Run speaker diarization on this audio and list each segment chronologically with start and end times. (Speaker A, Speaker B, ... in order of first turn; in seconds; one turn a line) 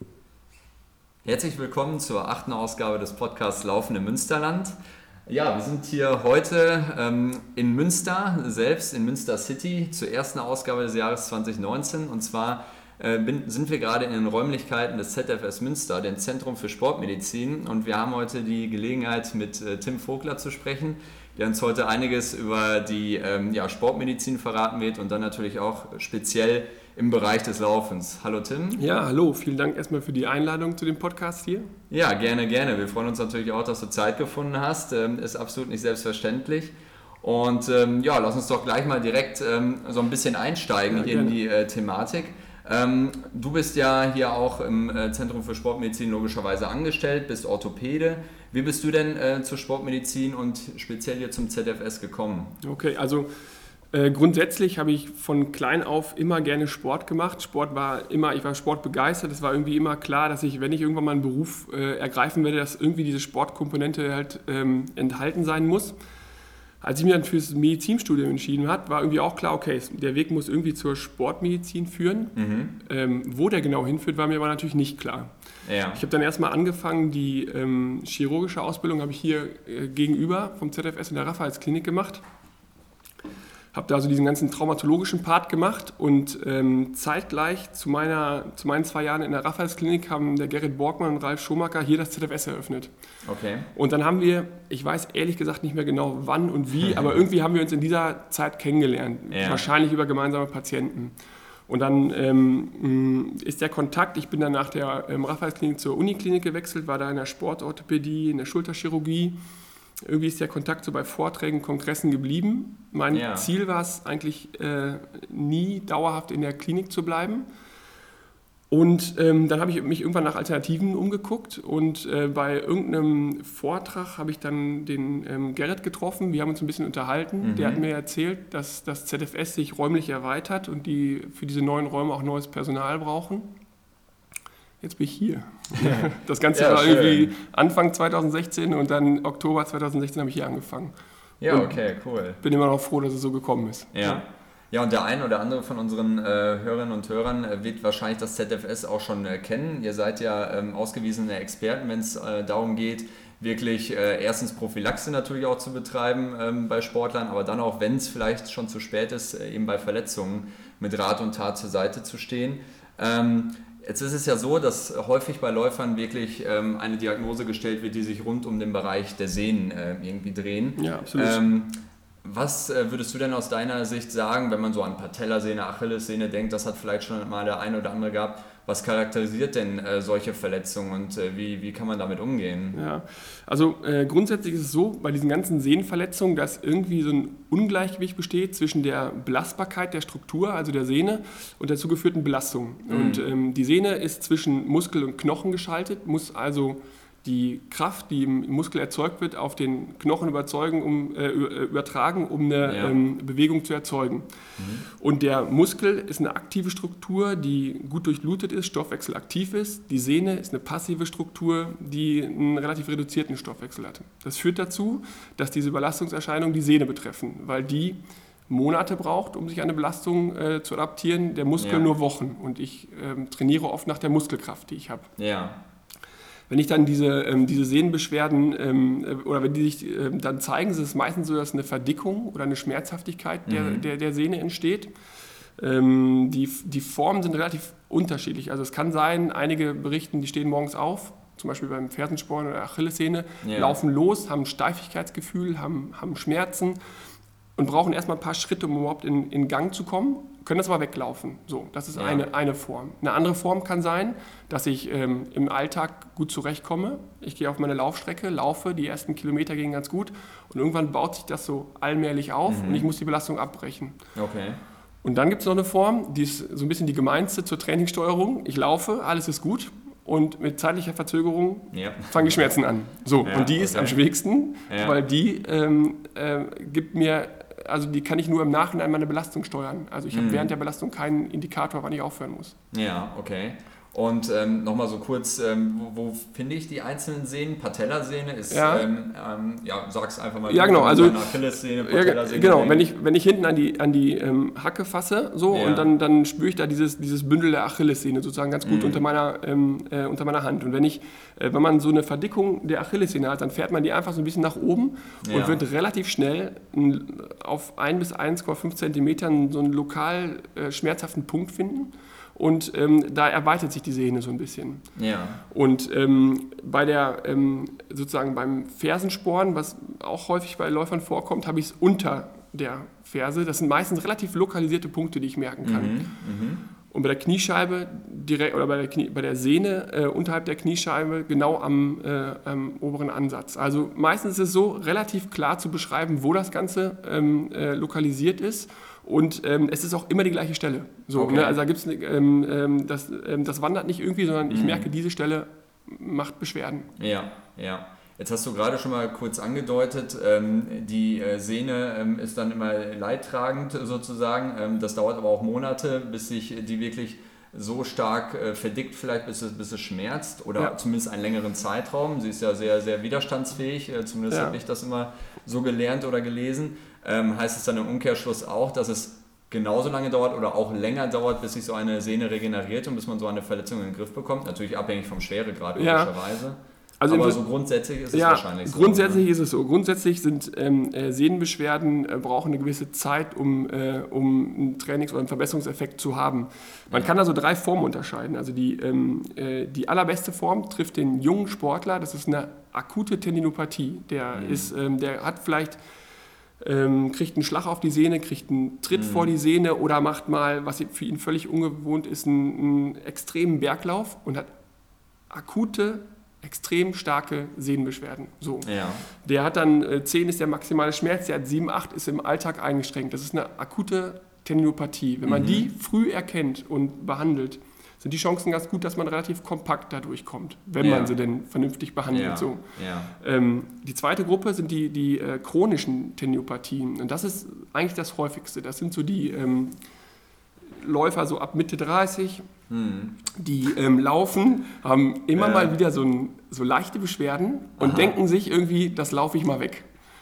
Speaker A: 1.2-4.7
Speaker A: 5.2-28.8
Speaker B: 28.8-31.7
Speaker A: 31.9-52.5
Speaker B: 40.9-41.4
Speaker B: 52.6-53.3
Speaker B: 53.9-65.9
Speaker B: 66.8-75.3
Speaker A: 72.3-72.8
Speaker A: 75.7-76.0
Speaker B: 75.9-82.2
Speaker B: 83.7-92.9
Speaker A: 93.2-93.7
Speaker B: 93.7-101.1
Speaker A: 99.3-99.7
Speaker B: 101.7-109.3
Speaker B: 110.0-117.5
Speaker A: 113.1-113.5
Speaker B: 118.7-133.5
Speaker A: 127.4-127.8
Speaker B: 134.8-140.9
Speaker A: 135.7-137.3
Speaker A: 141.4-142.4
Speaker B: 141.5-141.8
Speaker B: 142.4-144.2
Speaker A: 143.9-182.8
Speaker B: 170.8-171.5
Speaker B: 182.7-204.3
Speaker A: 192.9-193.2
Speaker A: 202.6-203.0
Speaker A: 204.6-204.8
Speaker B: 204.8-225.1
Speaker A: 221.6-221.8
Speaker A: 225.2-225.6
Speaker B: 226.5-234.9
Speaker A: 233.5-233.8
Speaker B: 235.6-246.8
Speaker A: 243.4-243.8
Speaker B: 247.6-264.0
Speaker A: 251.9-252.2
Speaker A: 262.5-262.9
Speaker A: 264.1-264.6
Speaker B: 265.0-282.6
Speaker A: 271.7-272.3
Speaker A: 273.2-274.0
Speaker A: 274.7-275.0
Speaker A: 280.1-280.5
Speaker A: 282.7-292.8
Speaker B: 288.5-288.9
Speaker B: 290.4-314.9
Speaker A: 295.5-295.9
Speaker A: 298.6-299.0
Speaker A: 305.2-305.6
Speaker A: 314.9-315.4
Speaker B: 315.5-326.1
Speaker A: 325.6-326.6
Speaker B: 326.9-346.9
Speaker A: 341.1-341.6
Speaker A: 344.5-344.9
Speaker A: 346.9-379.2
Speaker B: 364.3-364.6
Speaker B: 375.7-376.1
Speaker B: 377.0-377.4
Speaker B: 378.1-395.8
Speaker A: 394.3-394.7
Speaker B: 396.6-404.5
Speaker A: 398.9-399.3
Speaker B: 405.3-429.8
Speaker A: 408.6-409.0
Speaker A: 415.2-415.7
Speaker A: 420.8-421.1
Speaker A: 422.1-423.1
Speaker B: 430.8-432.5
Speaker A: 432.7-433.2
Speaker B: 433.3-439.9
Speaker A: 435.3-435.8
Speaker A: 437.8-438.1